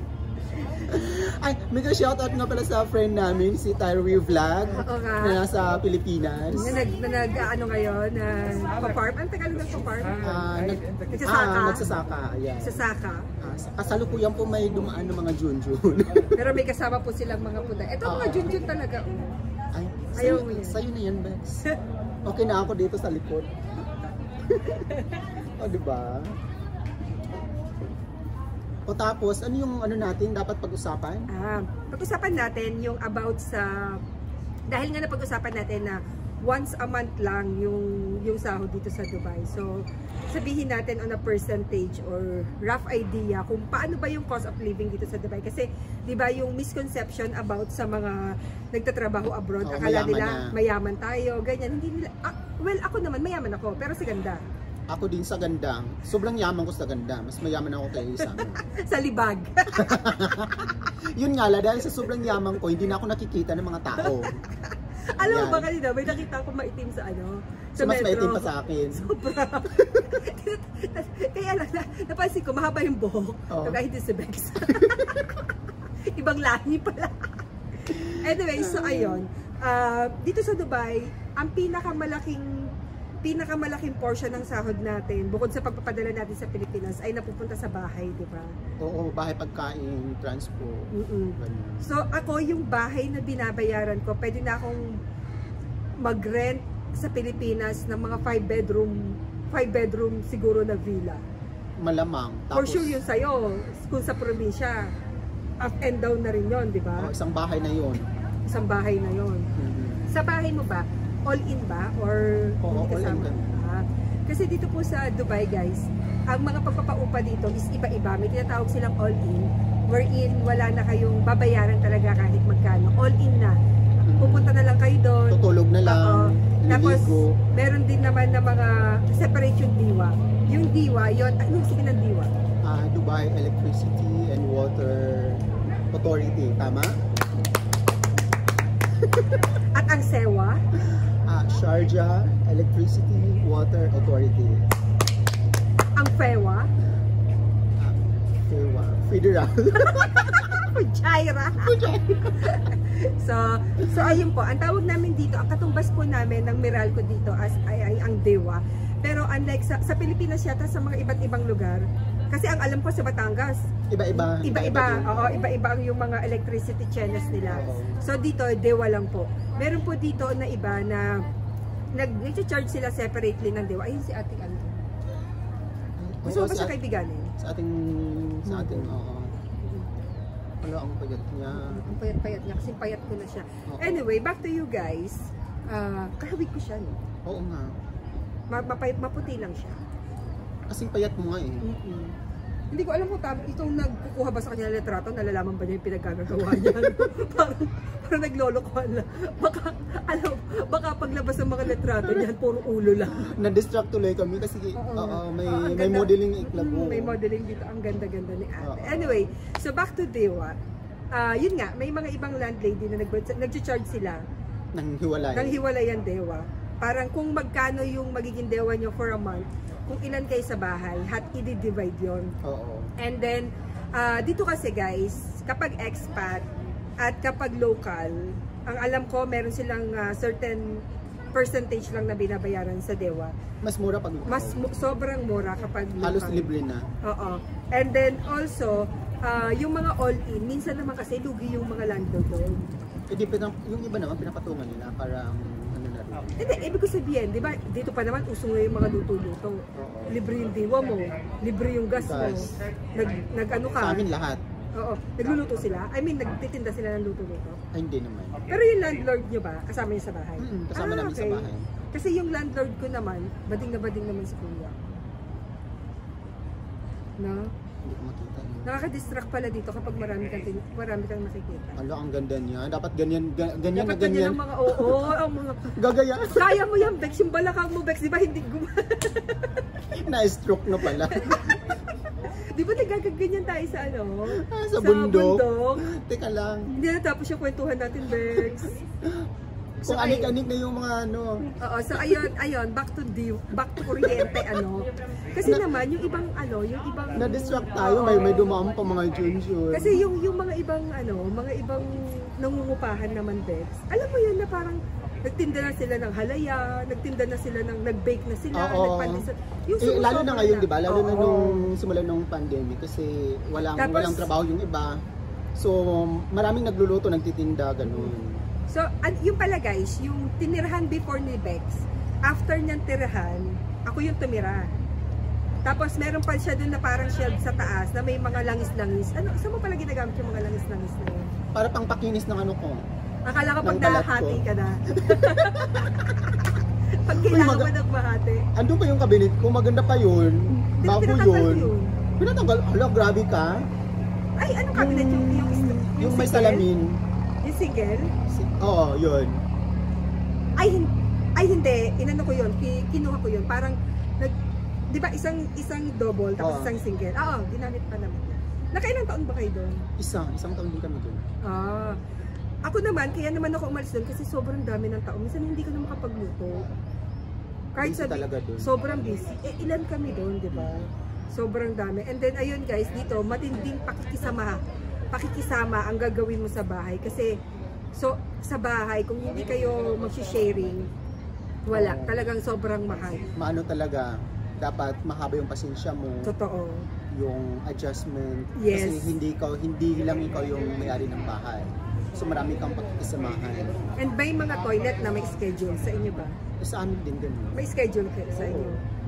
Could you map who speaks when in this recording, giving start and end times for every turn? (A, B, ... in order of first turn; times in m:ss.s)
0:00.7-0:06.8 A
0:04.7-0:05.4 B
0:06.5-0:12.1 B
0:10.2-0:12.8 A
0:12.6-0:13.3 B
0:13.4-0:16.4 A
0:16.4-0:19.3 B
0:18.0-0:18.6 A
0:19.7-0:21.6 A
0:20.2-0:20.8 B
0:22.2-0:23.5 A
0:24.4-0:24.9 A
0:24.9-0:25.2 B
0:25.6-0:26.3 A
0:28.9-0:31.3 A
0:31.3-0:34.0 B
0:34.7-0:54.4 B
0:49.6-0:50.5 A
0:54.9-0:58.6 A
0:58.2-1:00.3 B
0:59.8-1:04.4 A
1:04.0-1:15.5 B
1:05.2-1:05.7 A
1:07.8-1:09.1 A
1:13.5-1:13.8 A
1:14.7-1:15.1 A
1:16.0-1:22.6 B
1:17.9-1:19.2 A
1:23.2-1:28.5 B
1:28.8-1:31.8 A
1:30.9-1:34.9 B
1:36.0-1:41.2 B
1:41.8-1:43.0 A
1:42.5-1:44.9 B
1:45.6-1:47.1 B
1:47.0-1:48.1 A
1:48.5-1:49.5 B
1:49.6-1:50.1 A
1:50.1-2:03.6 B
1:52.6-1:53.6 A
2:04.1-2:04.6 A
2:04.2-2:12.3 B
2:05.3-2:07.4 A
2:12.6-2:17.0 A
2:19.7-2:20.6 B
2:20.8-2:24.7 A
2:26.0-2:26.7 B
2:27.8-2:30.7 A
2:29.8-2:31.8 B
2:31.6-2:32.6 A
2:32.4-2:43.6 B
2:33.8-2:34.2 A
2:43.9-2:45.5 A
2:44.1-2:51.2 B
2:47.5-2:48.0 A
2:51.9-2:54.8 B
2:56.0-2:56.8 A
2:56.2-2:57.3 B
2:57.4-2:59.3 A
2:58.5-2:59.0 B
2:59.6-2:59.9 B
3:00.6-3:01.9 A
3:01.5-3:07.0 B
3:03.7-3:04.0 A
3:07.3-3:07.8 A
3:08.5-3:09.8 B
3:10.7-3:11.6 A
3:11.6-3:12.2 B
3:12.7-3:23.3 B
3:16.4-3:17.0 A
3:23.2-3:27.2 A
3:24.8-3:30.6 B
3:28.6-3:29.3 A
3:31.1-3:34.2 B
3:34.8-3:35.6 A
3:35.3-3:42.3 B
3:42.4-3:42.9 A
3:43.0-3:46.5 B
3:47.0-3:50.8 B
3:51.3-3:53.3 B
3:53.6-3:54.6 A
3:54.3-3:56.5 B
3:56.0-3:56.9 A
3:57.0-4:02.7 B
4:03.1-4:06.4 A
4:06.4-4:14.1 B
4:09.8-4:10.1 A
4:12.0-4:12.5 A
4:13.8-4:14.4 A
4:14.8-4:17.6 B
4:17.7-4:18.5 A
4:18.5-4:24.9 B
4:20.4-4:21.7 A
4:27.2-4:27.5 B
4:27.8-4:28.7 A
4:28.6-4:31.8 B
4:31.8-4:35.1 A
4:33.8-4:35.7 B
4:35.7-4:36.6 A
4:36.3-4:39.6 B
4:39.9-4:41.7 A
4:40.8-4:41.4 B
4:42.3-4:45.9 B
4:44.3-4:46.7 A
4:46.7-4:48.8 B
4:49.0-4:49.3 A
4:49.8-4:52.3 A
4:49.9-4:50.3 B
4:51.6-4:58.4 B
4:53.9-4:54.4 A
4:55.4-4:55.7 A
4:57.1-5:00.1 A
4:59.7-5:11.7 B
5:08.5-5:09.3 A
5:09.8-5:15.0 A
5:13.8-5:14.3 B
5:15.6-5:18.4 A
5:17.8-5:18.1 B
5:18.7-5:24.7 B
5:25.6-5:31.3 B
5:31.5-5:32.8 A
5:33.3-5:36.4 B
5:33.6-5:36.0 A
5:37.0-5:38.5 B
5:37.2-5:37.7 A
5:38.6-5:43.6 A
5:40.8-5:41.9 B
5:44.4-5:46.7 B
5:44.7-5:47.0 A
5:47.4-5:48.1 B
5:48.3-5:49.4 A
5:50.6-5:54.4 B
5:54.9-5:59.9 B
5:56.4-5:56.8 A
6:00.0-6:01.2 A
6:01.4-6:02.0 B
6:02.7-6:06.7 B
6:07.8-6:17.4 B
6:07.8-6:08.7 A
6:10.5-6:10.9 A
6:17.9-6:20.9 B
6:21.7-6:23.3 B
6:21.7-6:22.3 A
6:23.4-6:26.3 A
6:26.2-6:26.9 B
6:27.1-6:33.9 A
6:28.6-6:29.2 B
6:34.0-6:36.4 B
6:36.6-6:37.6 A
6:37.6-6:38.8 B
6:38.3-6:38.8 A